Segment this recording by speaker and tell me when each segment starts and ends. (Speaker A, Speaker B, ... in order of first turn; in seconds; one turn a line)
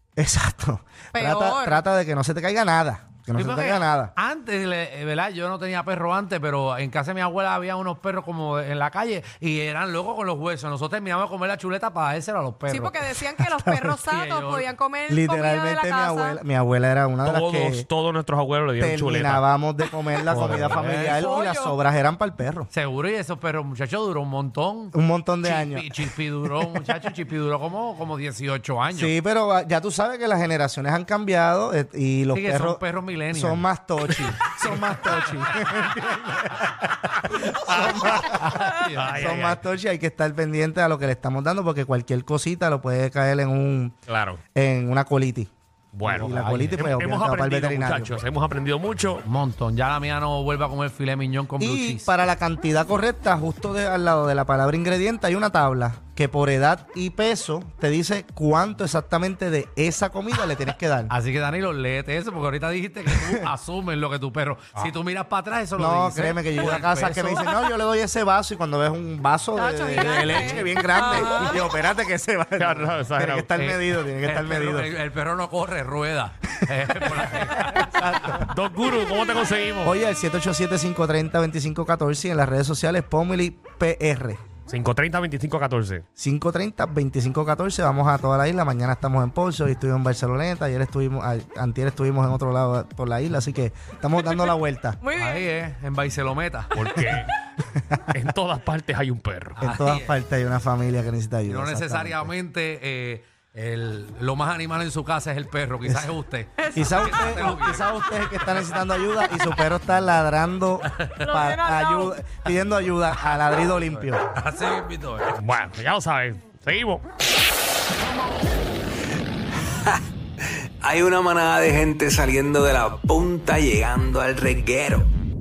Speaker A: 0.2-4.1
Speaker B: 1.1-1.8
Speaker C: 3.3-13.0
Speaker B: 12.7-16.4
Speaker A: 13.4-13.9
Speaker C: 14.0-14.7
Speaker A: 15.1-17.9
Speaker D: 17.2-19.4
Speaker A: 18.8-22.7
Speaker D: 20.3-21.0
Speaker C: 20.3-21.3
Speaker B: 21.0-21.7
Speaker C: 22.7-29.1
Speaker A: 24.9-26.9
Speaker A: 28.9-43.9
Speaker C: 32.3-35.9
Speaker D: 37.5-39.6
Speaker C: 38.3-39.5
Speaker D: 44.1-44.4
Speaker A: 44.5-45.5
Speaker D: 45.9-49.2
Speaker A: 46.0-48.1
Speaker C: 46.1-46.9
Speaker C: 49.2-52.1
Speaker A: 51.6-61.1
Speaker C: 61.1-67.5
Speaker A: 63.1-63.4
Speaker A: 65.8-74.9
Speaker B: 69.5-71.7
Speaker D: 72.6-73.7
Speaker C: 73.6-78.1
Speaker A: 76.8-78.5
Speaker D: 78.3-79.9
Speaker A: 79.8-84.4
Speaker D: 84.7-86.0
Speaker A: 86.2-95.0
Speaker B: 95.0-95.5
Speaker C: 95.2-97.0
Speaker D: 96.7-97.3
Speaker A: 97.8-98.0
Speaker D: 98.1-99.6
Speaker C: 99.6-100.2
Speaker A: 99.6-102.3
Speaker C: 101.5-108.9
Speaker A: 105.8-106.1
Speaker B: 106.6-107.4
Speaker A: 106.7-114.2
Speaker B: 109.0-109.5
Speaker C: 110.8-111.3
Speaker B: 111.2-112.2
Speaker C: 114.3-115.4
Speaker D: 115.4-117.0
Speaker E: 120.8-125.1